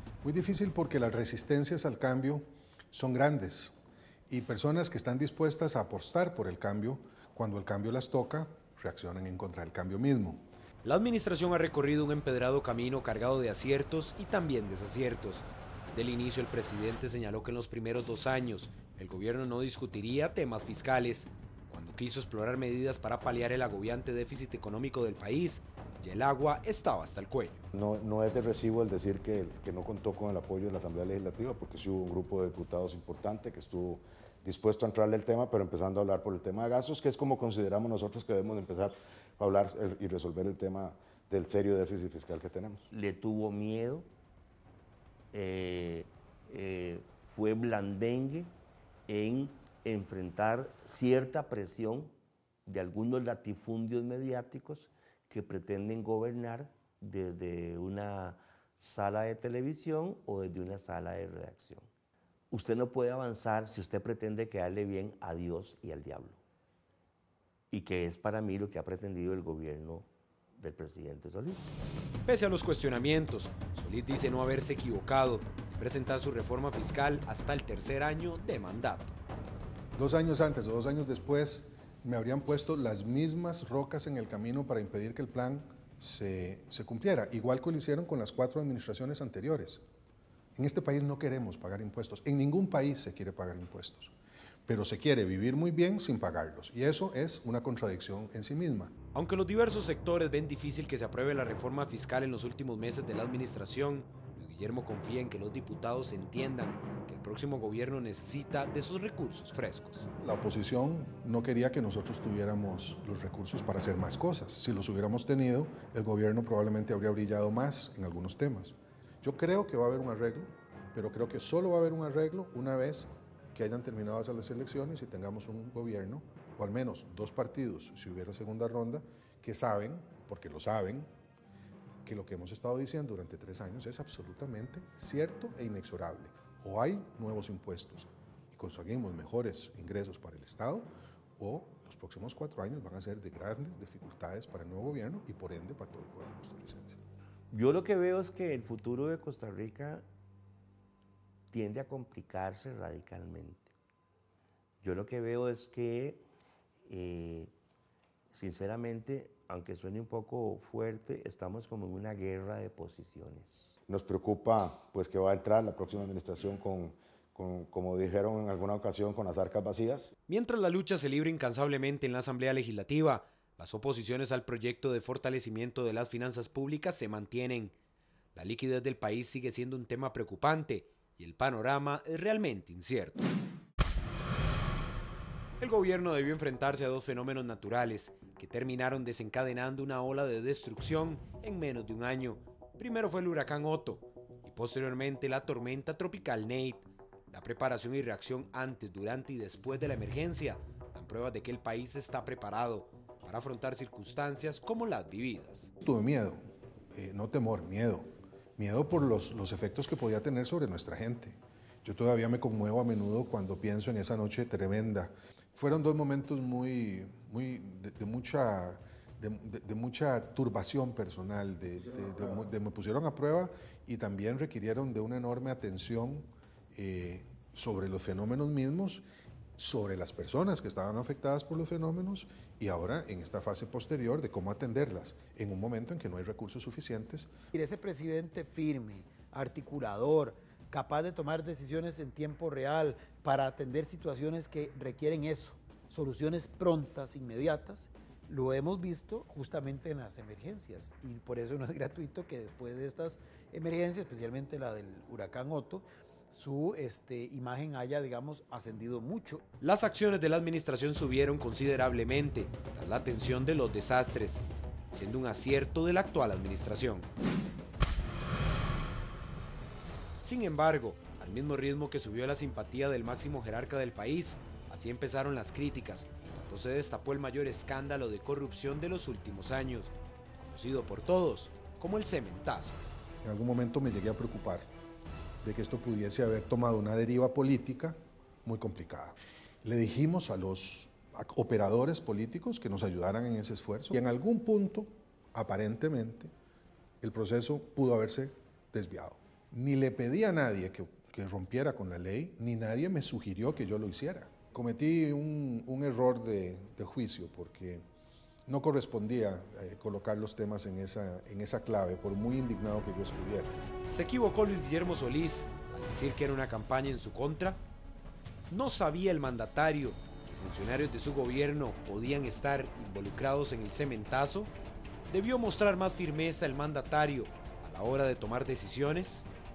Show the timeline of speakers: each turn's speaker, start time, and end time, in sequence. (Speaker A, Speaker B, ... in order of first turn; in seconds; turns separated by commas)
Speaker A: 0.2-3.8, Speaker A: 4.3-10.5, Speaker B: 10.8-27.6, Speaker C: 27.8-42.8, Speaker D: 42.9-44.1, Speaker D: 45.3-48.5, Speaker D: 49.1-52.1, Speaker D: 52.7-61.9, Speaker D: 62.5-66.4, Speaker D: 67.7-71.7, Speaker B: 72.3-79.2, Speaker A: 80.0-89.8, Speaker A: 90.5-94.2, Speaker A: 94.7-98.9, Speaker B: 99.1-110.1, Speaker A: 110.2-131.1, Speaker A: 132.1-147.0, Speaker D: 147.5-150.0, Speaker D: 151.5-153.7, Speaker D: 154.8-156.2, Speaker D: 156.9-157.5, Speaker D: 158.3-163.7, Speaker C: 163.9-170.1, Speaker B: 170.3-177.8, Speaker B: 178.3-183.3, Speaker B: 185.6-205.7, Speaker A: 205.8-229.0, Speaker A: 229.6-237.3, Speaker E: 237.5-259.4, Speaker B: 259.6-267.1, Speaker B: 270.2-282.8, Speaker A: 283.2-284.7, Speaker A: 285.4-296.3, Speaker A: 297.0-307.8, Speaker A: 308.5-313.6, Speaker B: 313.9-317.6, Speaker B: 318.5-324.5, Speaker B: 325.1-329.3